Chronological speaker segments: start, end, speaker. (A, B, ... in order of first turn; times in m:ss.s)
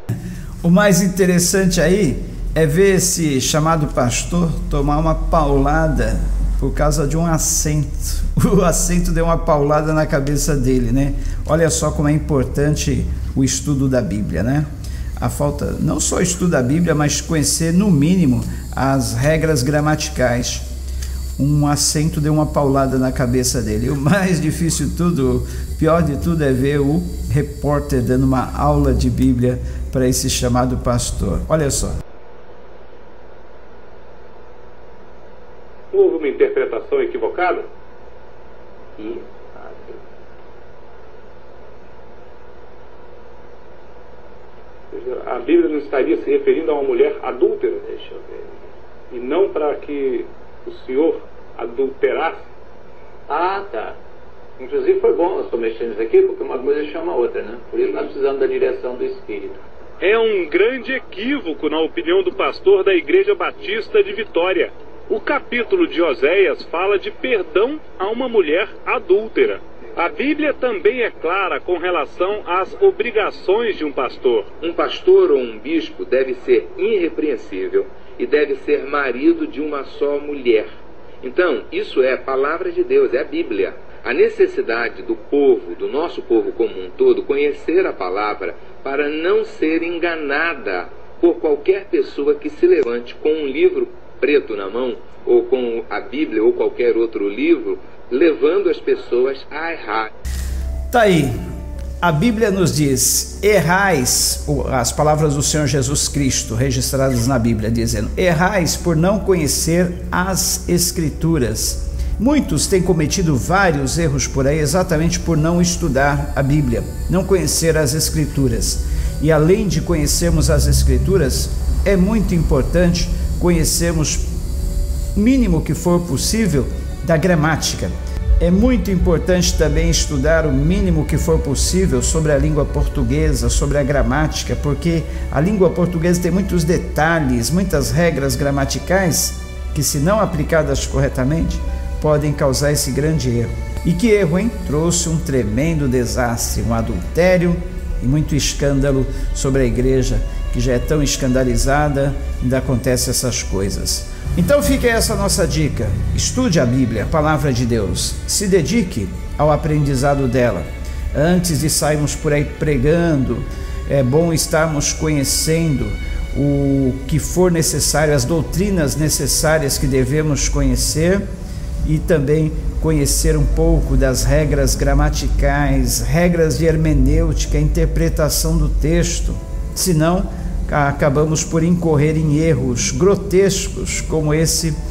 0:00.6-0:20.6 A
0:21.4-0:32.0 A
0:35.9-0:37.7 B
0:39.0-0:40.0 C
0:44.9-0:47.9 B
0:47.9-0:48.5 C
0:49.1-0:52.5 B
0:53.3-0:54.0 C
0:54.6-0:59.6 C
1:00.0-1:14.5 B
1:14.6-1:20.7 D
1:21.2-1:40.1 D
1:40.9-1:41.3 A
1:42.0-2:04.2 A
2:05.1-2:51.2 A
2:51.8-3:04.7 A